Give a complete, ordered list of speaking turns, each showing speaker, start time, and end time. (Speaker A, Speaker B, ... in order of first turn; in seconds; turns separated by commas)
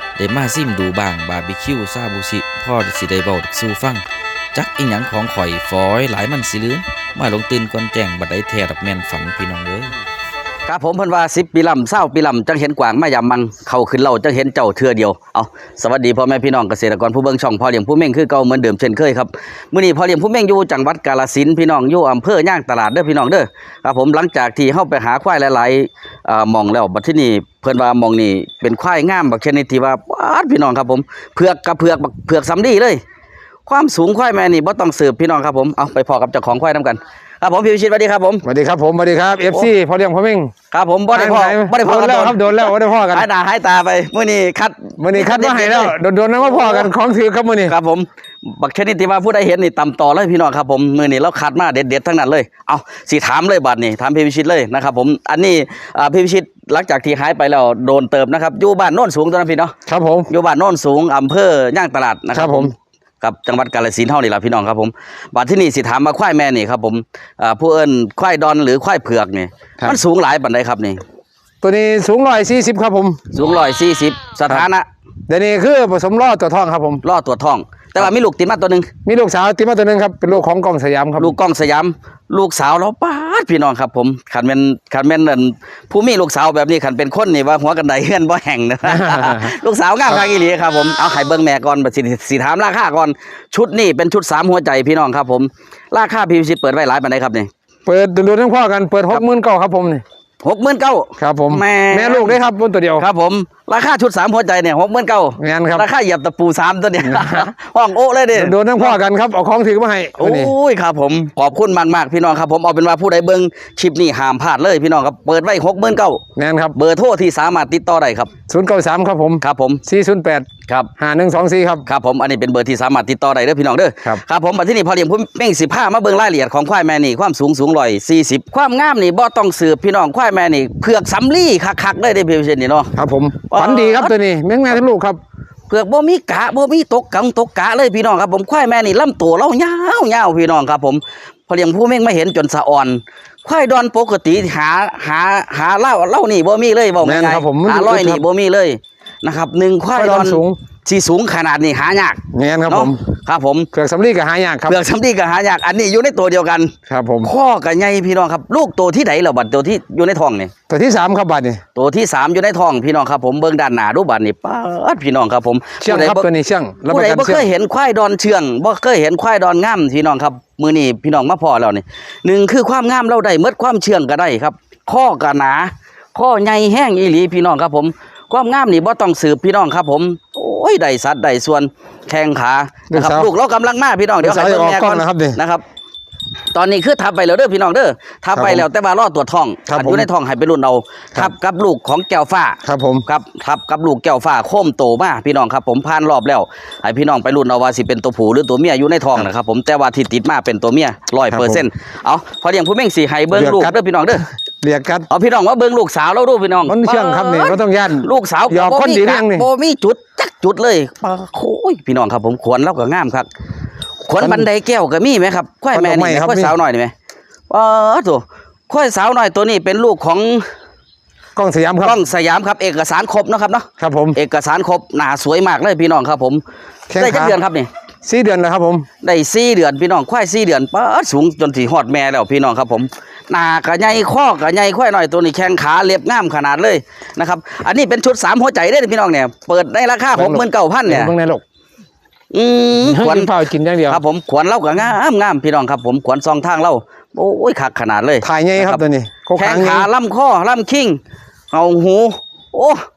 Speaker A: 0.2-4.0, Speaker B: 0.2-3.7, Speaker A: 4.5-9.7, Speaker B: 5.4-9.9, Speaker B: 10.7-33.0, Speaker B: 33.6-38.4, Speaker C: 38.4-40.5, Speaker B: 40.7-46.9, Speaker C: 41.1-43.3, Speaker C: 45.0-47.7, Speaker B: 47.6-59.7, Speaker C: 59.9-60.3, Speaker B: 60.3-71.0, Speaker C: 62.3-62.7, Speaker C: 71.6-73.2, Speaker B: 73.3-74.8, Speaker C: 75.3-77.0, Speaker B: 77.0-78.9, Speaker C: 79.0-81.3, Speaker B: 81.2-97.5, Speaker C: 88.8-89.5, Speaker C: 97.9-100.0, Speaker B: 100.4-102.4, Speaker C: 101.2-103.0, Speaker B: 103.0-109.0, Speaker C: 105.4-105.9, Speaker C: 107.0-107.5, Speaker C: 108.3-110.5, Speaker B: 110.2-116.2, Speaker C: 116.3-116.7, Speaker B: 116.7-118.3, Speaker C: 118.5-120.5, Speaker B: 119.4-119.8, Speaker C: 121.0-121.8, Speaker B: 121.8-132.9, Speaker C: 132.9-135.2, Speaker B: 133.5-134.1, Speaker B: 135.7-153.7, Speaker C: 147.0-148.2, Speaker C: 149.9-150.6, Speaker C: 152.3-153.0, Speaker C: 153.7-154.8, Speaker B: 154.7-156.7, Speaker C: 156.9-157.3, Speaker B: 157.2-160.5, Speaker C: 160.7-161.6, Speaker B: 161.8-166.3, Speaker C: 165.8-167.5, Speaker B: 166.9-185.6, Speaker C: 182.9-183.3, Speaker C: 184.2-185.4, Speaker B: 186.5-204.2, Speaker C: 188.3-188.7, Speaker C: 189.7-190.1, Speaker C: 192.6-193.0, Speaker C: 201.3-201.6, Speaker C: 203.3-205.1, Speaker B: 205.1-213.3, Speaker C: 206.7-209.5, Speaker B: 214.1-216.9, Speaker C: 214.2-214.5, Speaker C: 215.7-216.5, Speaker B: 217.5-220.4, Speaker C: 221.3-222.0, Speaker B: 221.8-226.4, Speaker C: 223.8-224.2, Speaker C: 226.9-227.4, Speaker B: 226.9-227.7, Speaker C: 228.0-228.8, Speaker B: 229.0-241.1, Speaker C: 240.1-241.4, Speaker B: 242.3-243.3, Speaker C: 242.8-244.0, Speaker B: 243.9-248.8, Speaker C: 248.2-249.9, Speaker B: 249.3-251.0, Speaker B: 251.5-252.8